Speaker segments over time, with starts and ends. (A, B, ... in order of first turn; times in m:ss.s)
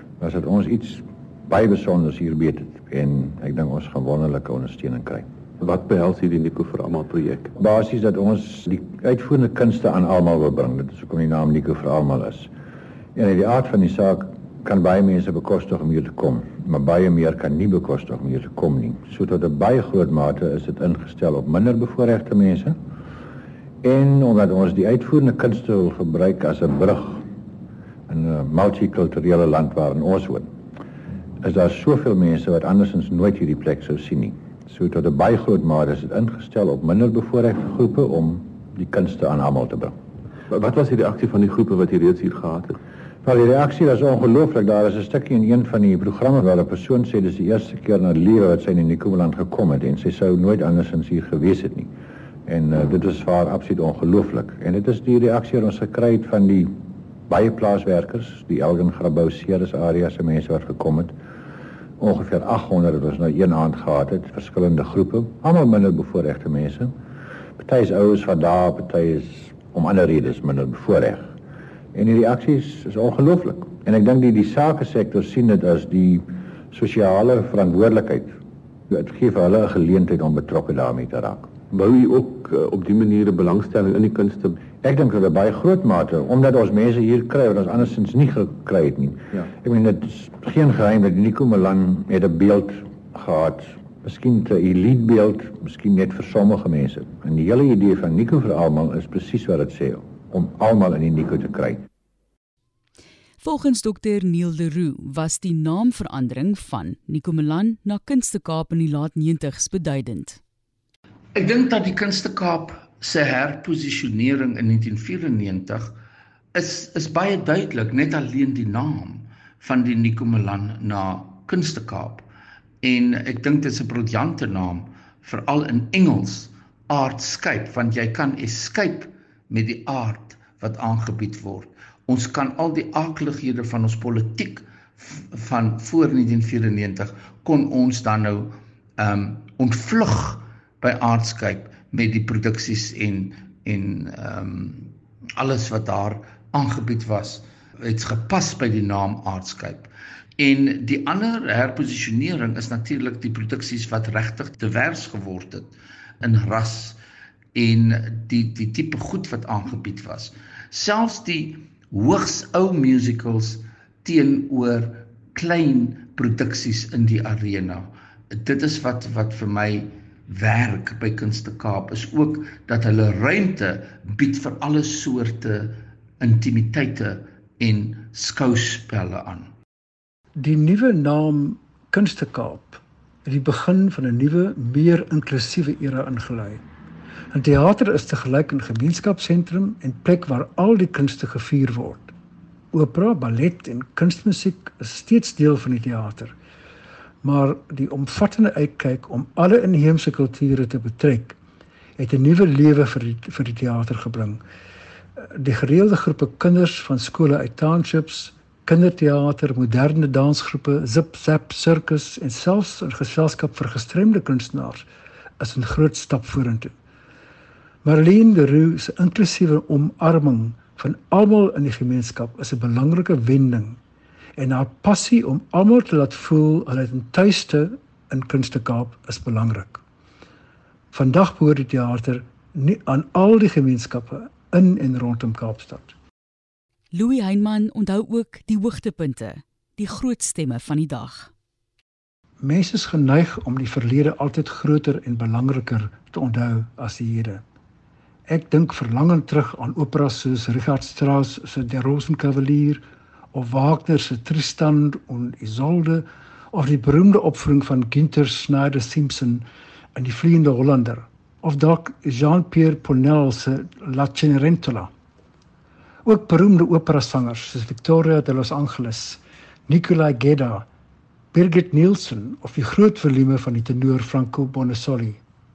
0:00.2-0:05.3 A
0:05.6-0:07.5 B
0:07.6-0:12.5 A
0:13.2-0:22.8 A
0:23.8-0:27.3 A
0:28.1-0:30.5 A
0:31.4-0:39.9 A
0:40.5-0:42.8 B
0:43.2-0:51.9 A
0:52.5-1:01.1 A
1:02.0-1:07.0 A
1:07.6-1:11.3 A
1:11.9-1:18.3 A
1:18.9-1:21.6 A
1:21.7-1:24.6 B
1:24.8-1:41.8 A
1:43.4-1:50.4 C
1:51.4-1:56.0 D
1:56.5-2:02.2 D
2:02.8-2:37.0 D
2:37.6-2:59.5 D
3:00.4-3:06.6 E
3:07.3-3:12.1 E
3:12.7-3:16.4 E
3:17.2-3:21.4 E
3:22.0-3:24.4 E
3:25.4-3:34.9 E
3:35.4-3:36.7 E
3:37.8-3:43.8 E
3:44.4-3:49.8 E
3:50.9-3:55.9 E
3:56.9-4:01.3 C
4:02.4-4:07.4 E
4:08.3-4:24.9 E
4:26.0-4:30.7 E
4:31.3-4:35.2 E